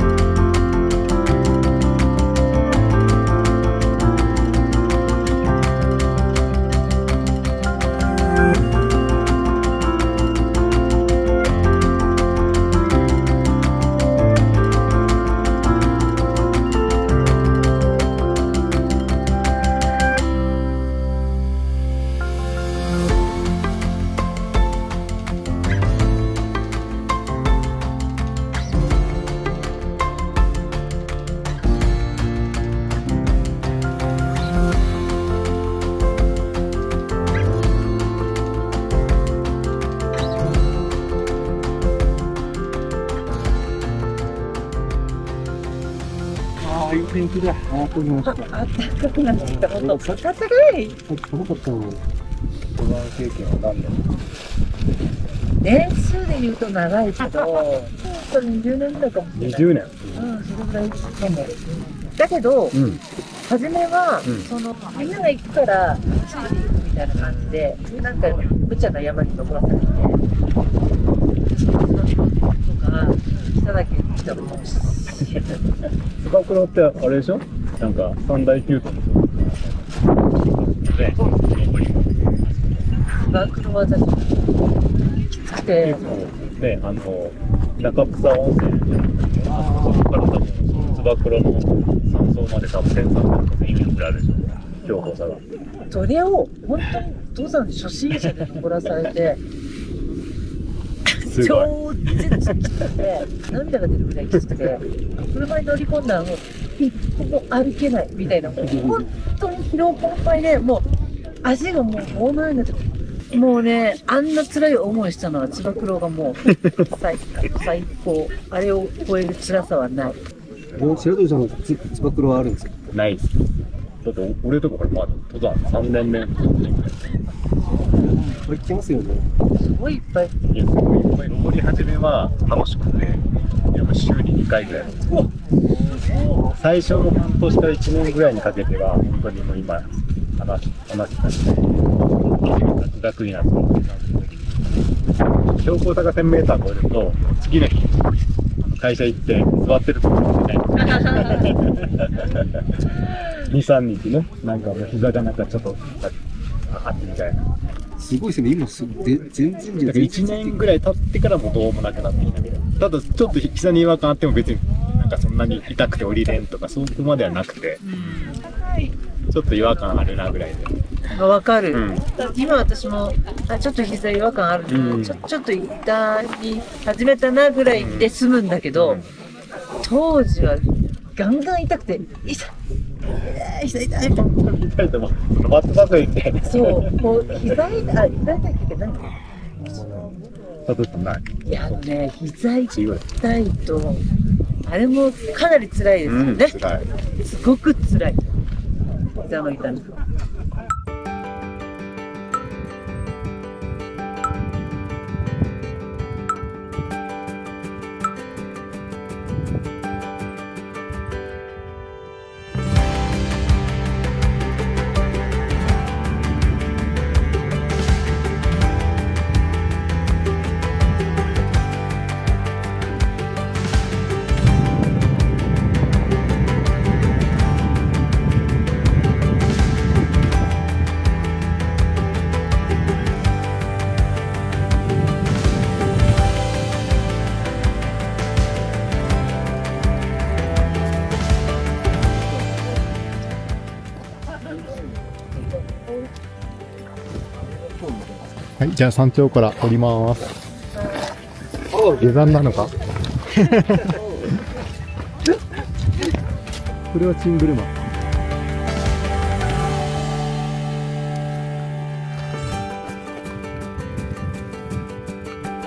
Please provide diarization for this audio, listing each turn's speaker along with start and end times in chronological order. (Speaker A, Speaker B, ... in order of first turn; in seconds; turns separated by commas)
Speaker A: 46.6-48.5, Speaker B: 48.2-51.0, Speaker A: 49.4-50.2, Speaker A: 51.0-52.0, Speaker C: 52.8-54.0, Speaker B: 55.6-62.8, Speaker C: 59.3-60.3, Speaker C: 62.7-63.0, Speaker B: 63.5-70.2, Speaker B: 71.5-75.4, Speaker C: 76.1-82.4, Speaker B: 83.1-84.5, Speaker B: 85.3-86.0, Speaker C: 85.8-95.4, Speaker B: 95.9-99.4, Speaker B: 101.2-110.9, Speaker C: 101.3-101.7, Speaker A: 108.6-109.0, Speaker B: 111.4-120.2, Speaker A: 120.8-122.7, Speaker C: 122.9-123.3, Speaker C: 124.0-127.0, Speaker A: 128.0-129.3, Speaker B: 129.5-130.3, Speaker C: 130.5-135.1, Speaker C: 136.5-144.5, Speaker C: 145.4-148.0, Speaker C: 148.6-156.2, Speaker C: 156.7-157.4, Speaker A: 158.0-160.6, Speaker C: 159.8-168.3, Speaker B: 167.8-168.9, Speaker C: 169.3-170.7, Speaker B: 171.1-179.0, Speaker C: 171.7-172.1, Speaker C: 174.7-175.2, Speaker C: 177.7-178.1, Speaker C: 178.7-179.1, Speaker B: 179.8-182.5, Speaker B: 183.1-184.2, Speaker C: 184.1-186.9, Speaker B: 186.4-189.2, Speaker C: 190.7-191.2, Speaker B: 191.4-194.0, Speaker C: 192.7-193.0, Speaker B: 194.6-196.5, Speaker C: 196.0-196.9, Speaker B: 197.2-198.2, Speaker B: 199.2-199.9, Speaker A: 247.8-248.3, Speaker D: 248.6-250.3, Speaker D: 251.8-252.7, Speaker D: 253.3-253.9, Speaker D: 256.9-257.8